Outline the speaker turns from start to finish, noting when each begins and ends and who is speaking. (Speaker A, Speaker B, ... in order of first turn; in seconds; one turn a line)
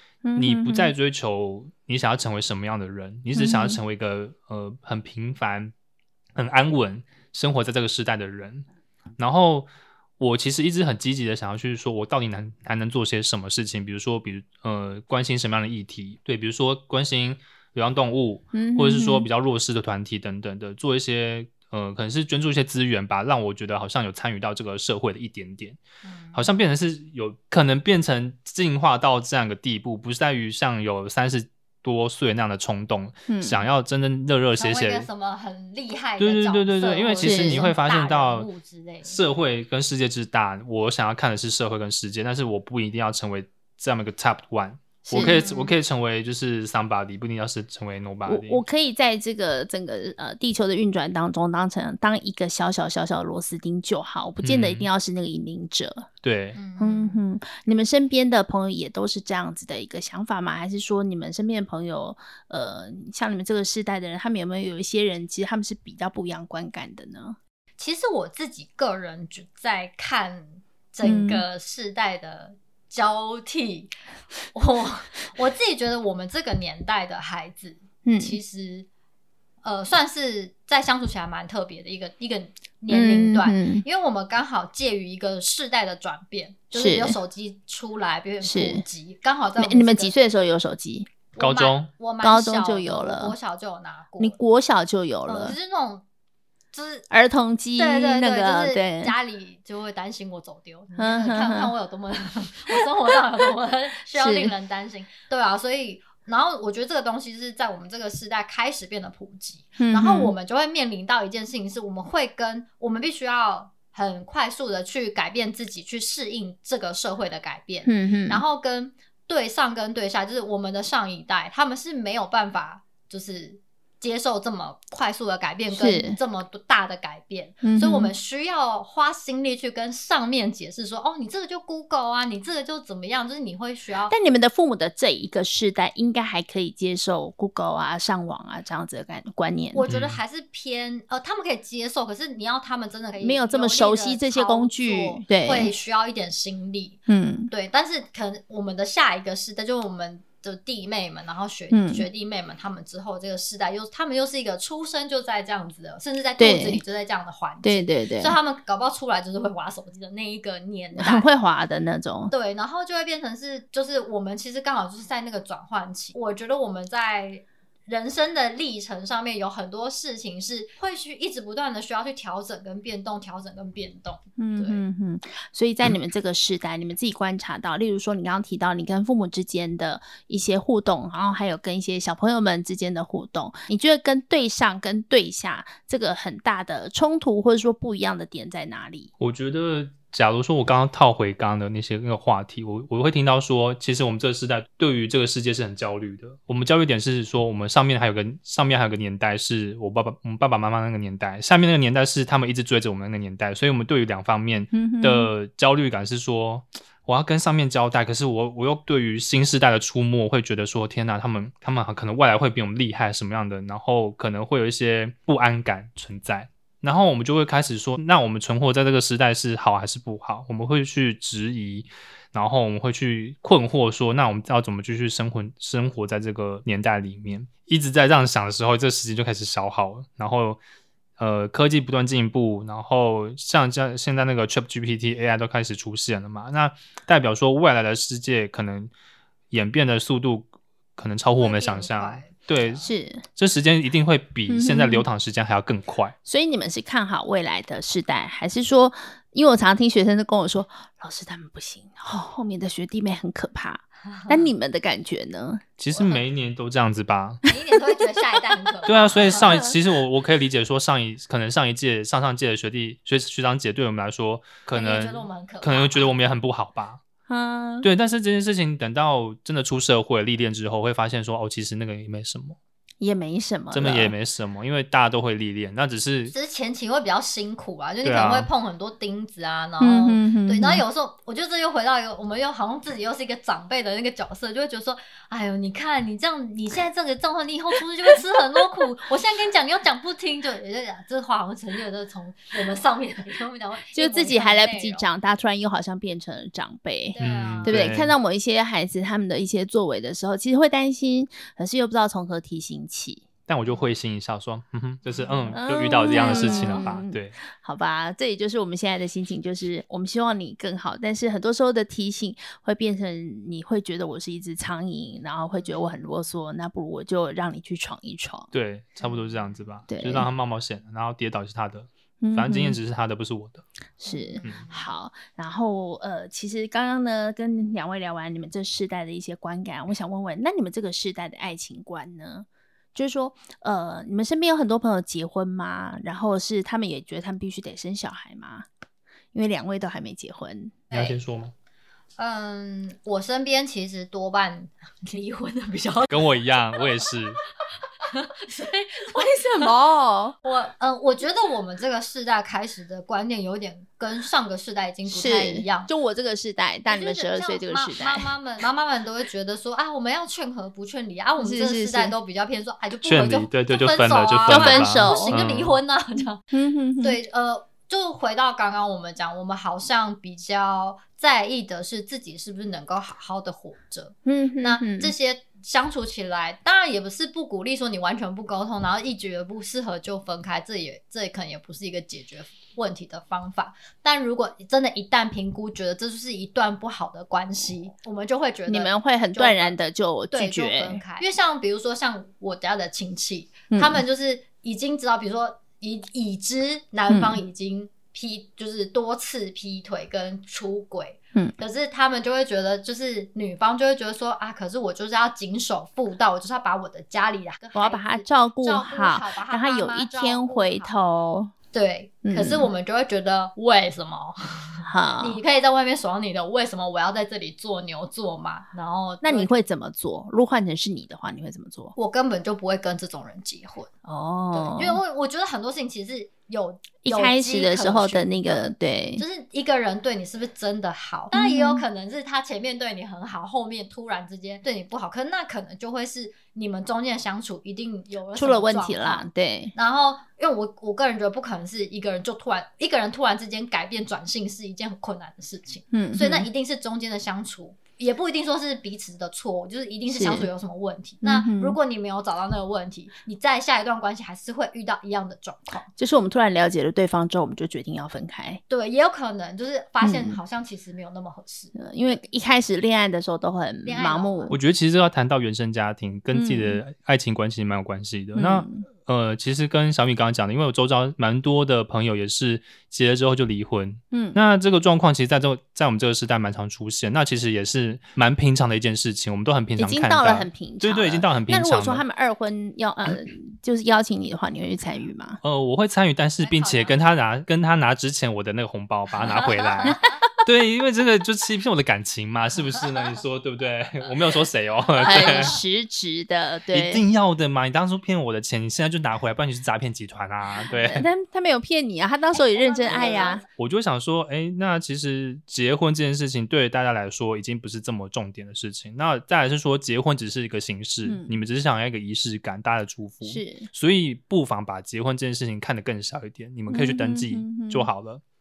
Speaker A: 0.2-0.9
Speaker B: 0.4-5.7
Speaker A: 3.4-3.8
Speaker B: 6.3-8.7
Speaker B: 9.2-25.8
Speaker A: 18.5-19.3
Speaker C: 26.0-26.5
Speaker B: 26.3-35.1
Speaker A: 33.3-33.6
Speaker C: 34.6-39.2
Speaker B: 36.2-38.5
Speaker A: 37.2-37.7
Speaker B: 39.0-48.6
Speaker A: 45.1-45.4
Speaker C: 45.2-45.8
Speaker A: 48.3-56.1
Speaker B: 54.4-54.9
Speaker B: 56.2-56.6
Speaker C: 56.5-57.2
Speaker A: 56.8-67.4
Speaker C: 67.8-73.9
Speaker A: 71.0-71.4
Speaker C: 74.5-78.9
Speaker A: 78.0-78.4
Speaker C: 79.6-90.2
Speaker A: 82.9-83.8
Speaker A: 86.7-87.2
Speaker A: 88.4-88.8
Speaker A: 89.6-91.1
Speaker C: 91.3-94.4
Speaker B: 91.4-91.9
Speaker A: 92.2-93.3
Speaker A: 94.2-95.6
Speaker C: 95.3-96.0
Speaker C: 96.7-97.1
Speaker A: 97.1-99.2
Speaker C: 97.8-134.1
Speaker A: 101.0-101.7
Speaker A: 104.1-104.5
Speaker A: 109.8-110.3
Speaker A: 117.8-118.4
Speaker A: 125.7-126.2
Speaker A: 127.6-128.1
Speaker A: 134.1-139.9
Speaker C: 139.7-161.3
Speaker B: 139.9-140.2
Speaker A: 143.2-145.7
Speaker A: 147.1-147.5
Speaker A: 151.7-152.1
Speaker A: 156.4-156.8
Speaker A: 157.6-158.4
Speaker A: 161.0-162.3
Speaker C: 162.3-174.8
Speaker A: 174.4-189.1
Speaker B: 189.2-230.6
Speaker A: 204.7-205.3
Speaker B: 231.2-238.9
Speaker B: 239.5-242.8
Speaker C: 241.4-242.9
Speaker A: 242.8-243.2
Speaker B: 243.4-246.2
Speaker A: 244.5-245.1
Speaker A: 246.3-255.6
Speaker C: 254.1-254.5
Speaker B: 255.8-257.4
Speaker C: 255.9-256.2
Speaker C: 257.4-259.6
Speaker B: 258.9-267.0
Speaker A: 259.3-259.7
Speaker C: 264.7-266.3
Speaker A: 267.3-267.9
Speaker B: 267.8-272.6
Speaker A: 273.0-274.1
Speaker B: 273.7-276.3
Speaker C: 276.3-295.1
Speaker B: 278.0-278.5
Speaker A: 279.8-280.8
Speaker A: 293.9-303.2
Speaker C: 297.1-297.8
Speaker B: 297.2-298.1
Speaker B: 303.5-307.4
Speaker C: 305.1-307.0
Speaker A: 305.5-318.5
Speaker C: 315.6-315.8
Speaker B: 318.5-323.6
Speaker A: 319.9-320.3
Speaker A: 322.2-322.8
Speaker A: 324.0-338.7
Speaker C: 324.1-324.9
Speaker A: 339.3-340.8
Speaker C: 340.9-341.2
Speaker B: 340.9-341.5
Speaker C: 342.2-347.0
Speaker B: 346.1-347.4
Speaker C: 348.0-349.7
Speaker A: 349.5-350.4
Speaker C: 350.4-355.9
Speaker A: 355.1-358.3
Speaker C: 356.9-366.4
Speaker A: 361.4-362.1
Speaker B: 363.0-365.8
Speaker A: 364.5-365.4
Speaker A: 366.5-367.2
Speaker C: 367.0-389.8
Speaker A: 374.2-375.1
Speaker A: 388.7-391.0
Speaker C: 390.3-410.9
Speaker A: 393.7-394.0
Speaker A: 397.1-397.4
Speaker A: 407.8-411.5
Speaker C: 411.7-419.5
Speaker A: 412.2-412.7
Speaker A: 414.9-415.4
Speaker A: 419.2-421.9
Speaker C: 422.0-423.9
Speaker A: 424.1-425.0
Speaker C: 424.5-428.3
Speaker A: 427.0-429.2
Speaker C: 429.2-455.9
Speaker A: 431.3-431.8
Speaker A: 438.4-439.7
Speaker A: 445.9-446.5
Speaker A: 450.1-450.5
Speaker A: 451.2-451.8
Speaker A: 456.0-458.6
Speaker C: 458.7-462.2
Speaker A: 460.0-460.4
Speaker A: 461.8-464.6
Speaker C: 463.9-464.6
Speaker B: 464.5-482.1
Speaker A: 466.3-466.8
Speaker A: 468.3-468.9
Speaker A: 474.1-474.4
Speaker A: 479.8-485.4
Speaker B: 485.4-495.6
Speaker C: 486.4-487.1
Speaker C: 489.2-490.1
Speaker A: 489.8-490.1
Speaker C: 495.0-495.6
Speaker A: 495.0-497.0
Speaker B: 496.7-501.1
Speaker A: 500.7-503.4
Speaker C: 502.3-503.5
Speaker B: 503.6-518.2
Speaker A: 511.0-511.4
Speaker A: 513.2-513.7
Speaker A: 516.7-517.9